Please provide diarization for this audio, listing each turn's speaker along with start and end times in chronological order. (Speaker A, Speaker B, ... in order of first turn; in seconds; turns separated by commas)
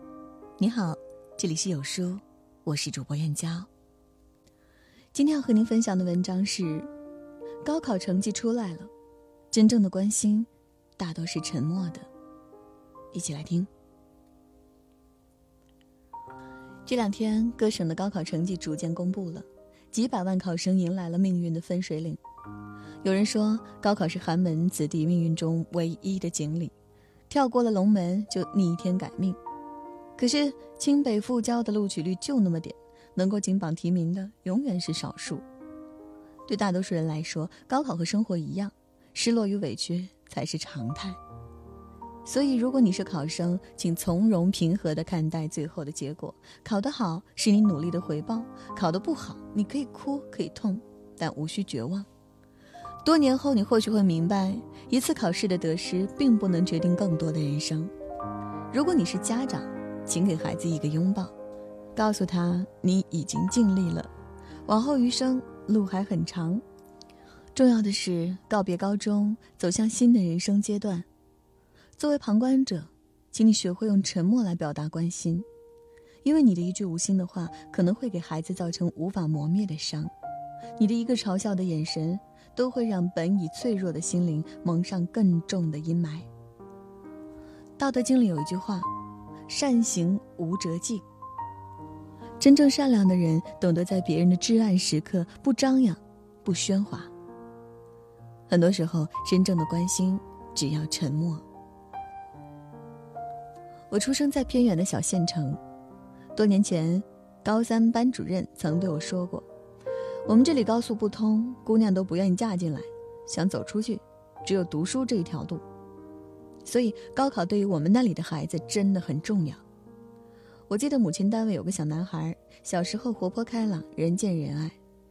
Speaker A: 0.6-3.7, Speaker A: 5.1-6.9, Speaker A: 7.6-8.9, Speaker A: 9.5-12.1, Speaker A: 13.1-13.7, Speaker A: 16.8-22.2, Speaker A: 23.0-26.7, Speaker A: 27.3-29.4, Speaker A: 30.2-35.5, Speaker A: 36.5-41.2, Speaker A: 42.2-52.1, Speaker A: 53.0-57.9, Speaker A: 58.7-61.3, Speaker A: 62.0-64.1, Speaker A: 64.7-66.6, Speaker A: 67.5-71.1, Speaker A: 72.0-75.5, Speaker A: 76.2-80.1, Speaker A: 80.8-86.3, Speaker A: 87.8-88.9, Speaker A: 89.5-91.0, Speaker A: 92.4-97.1, Speaker A: 98.5-101.5, Speaker A: 103.9-105.6, Speaker A: 106.3-109.5, Speaker A: 110.3-115.6, Speaker A: 116.7-119.6, Speaker A: 120.7-124.8